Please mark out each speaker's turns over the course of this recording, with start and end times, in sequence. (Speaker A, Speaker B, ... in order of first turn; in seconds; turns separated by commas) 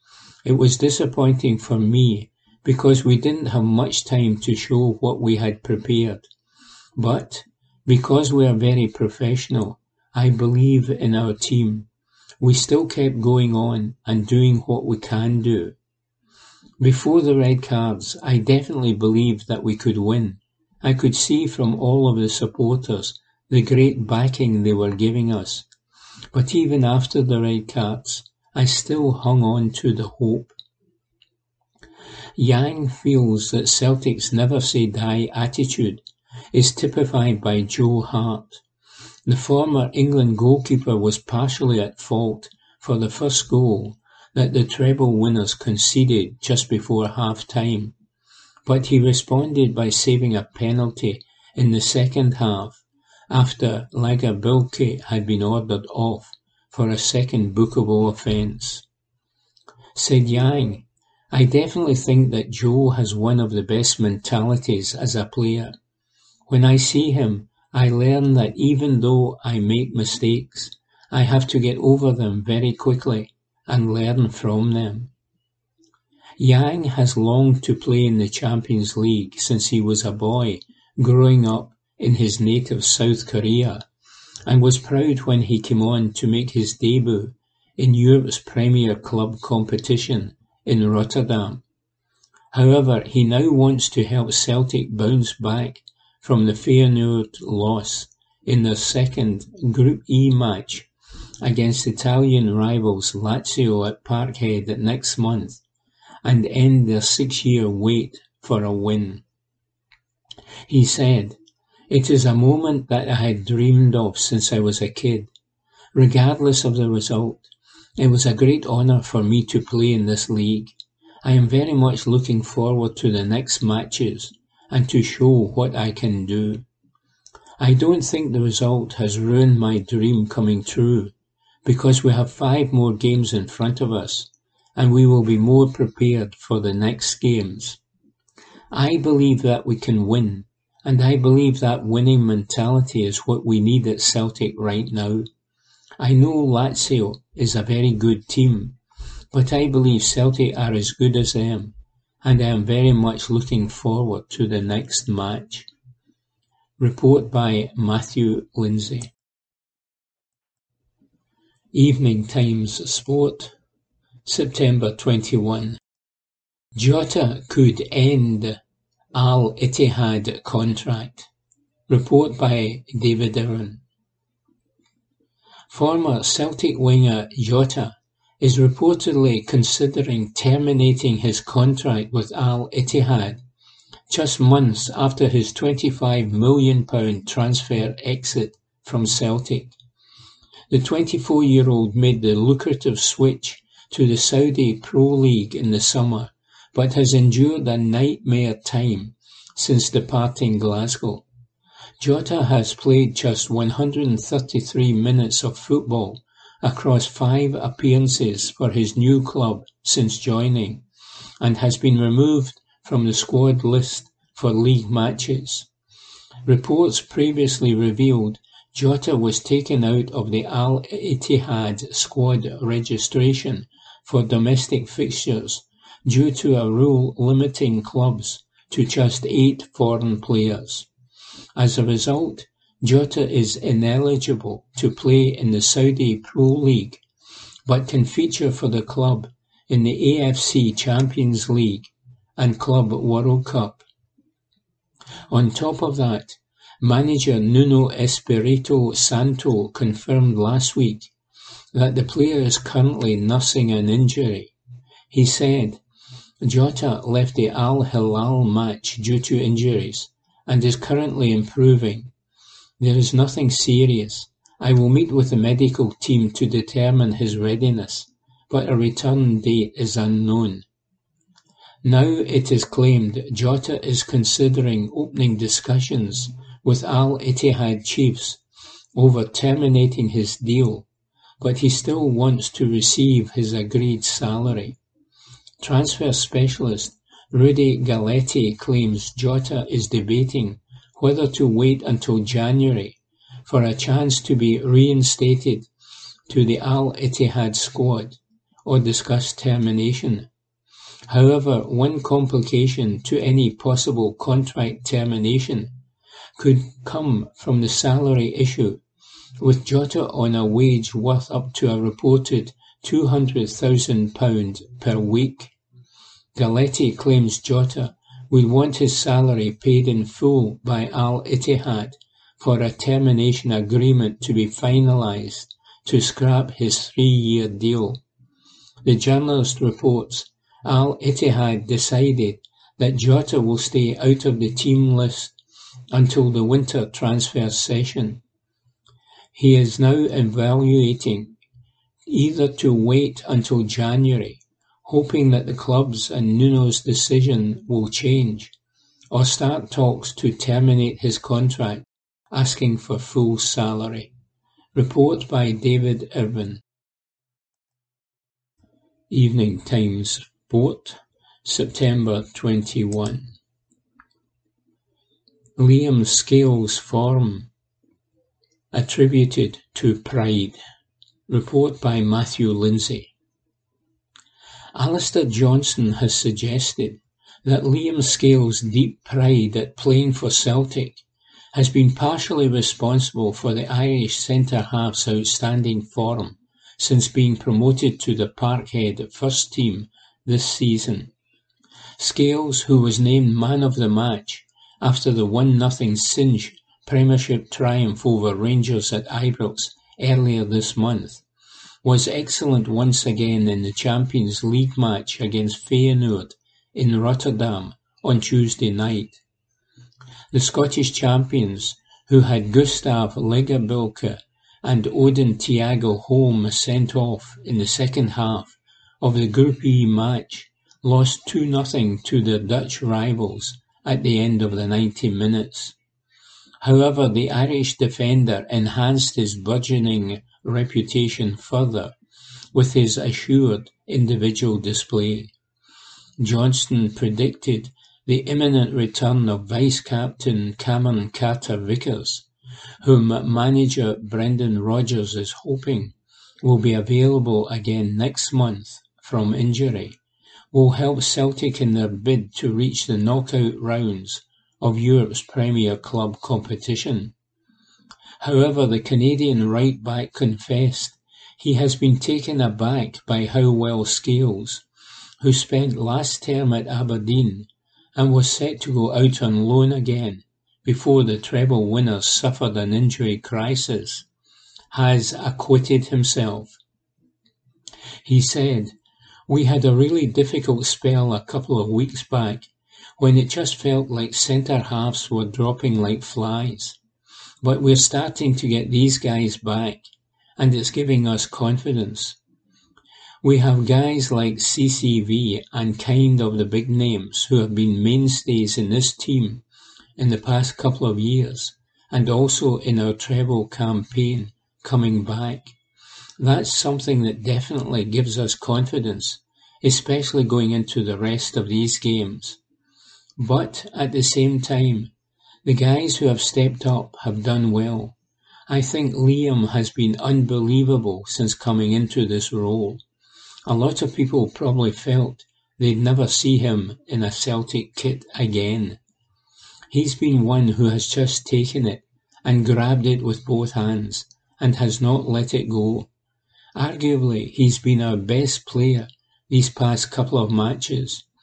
Speaker A: 0.5-6.2, Speaker A: 7.0-11.9, Speaker A: 12.4-15.8, Speaker A: 16.8-25.7, Speaker A: 26.3-30.5, Speaker A: 32.4-38.6, Speaker A: 39.3-47.9, Speaker A: 48.6-58.9, Speaker A: 60.0-65.7, Speaker A: 66.5-75.1, Speaker A: 76.4-83.8, Speaker A: 84.5-91.6, Speaker A: 92.5-100.9, Speaker A: 101.4-105.6, Speaker A: 106.2-109.2, Speaker A: 110.7-111.4, Speaker A: 111.9-115.3, Speaker A: 115.9-117.5, Speaker A: 118.0-120.7, Speaker A: 121.2-126.6, Speaker A: 127.6-131.1, Speaker A: 131.7-137.8, Speaker A: 138.7-145.3, Speaker A: 146.0-148.8, Speaker A: 149.3-155.7, Speaker A: 156.8-159.1, Speaker A: 161.7-163.5, Speaker A: 164.2-165.8, Speaker A: 166.8-168.6, Speaker A: 169.1-171.3, Speaker A: 171.9-173.8, Speaker A: 175.7-183.4, Speaker A: 184.1-189.8, Speaker A: 190.7-201.2, Speaker A: 202.0-210.8, Speaker A: 211.4-215.7, Speaker A: 216.4-230.9, Speaker A: 231.6-237.0, Speaker A: 237.7-243.8, Speaker A: 245.3-251.1, Speaker A: 251.7-254.5, Speaker A: 255.1-255.8, Speaker A: 256.4-262.1, Speaker A: 262.8-270.6, Speaker A: 271.8-278.4, Speaker A: 278.9-280.9, Speaker A: 281.4-284.8, Speaker A: 285.6-295.7, Speaker A: 296.3-300.3, Speaker A: 301.1-305.7, Speaker A: 306.4-308.8, Speaker A: 309.4-315.5, Speaker A: 316.4-328.0, Speaker A: 328.9-335.4, Speaker A: 335.9-338.2, Speaker A: 339.3-341.3, Speaker A: 342.1-348.5, Speaker A: 349.1-354.1, Speaker A: 354.8-356.6, Speaker A: 359.1-363.3, Speaker A: 365.6-367.5, Speaker A: 368.7-370.6, Speaker A: 371.3-373.1, Speaker A: 374.8-391.1, Speaker A: 392.0-401.2, Speaker A: 401.8-409.2, Speaker A: 410.3-425.8, Speaker A: 426.6-431.9, Speaker A: 432.5-435.3, Speaker A: 436.2-442.3, Speaker A: 442.8-450.0, Speaker A: 450.5-457.1, Speaker A: 458.2-464.6, Speaker A: 465.2-474.1, Speaker A: 474.7-476.6, Speaker A: 478.1-478.7, Speaker A: 479.3-486.8, Speaker A: 487.4-489.8, Speaker A: 490.4-492.2, Speaker A: 493.2-499.4, Speaker A: 500.0-505.6, Speaker A: 506.2-512.4, Speaker A: 513.2-514.9, Speaker A: 515.5-518.0, Speaker A: 518.5-522.8, Speaker A: 523.5-528.8, Speaker A: 529.7-535.9, Speaker A: 536.5-541.0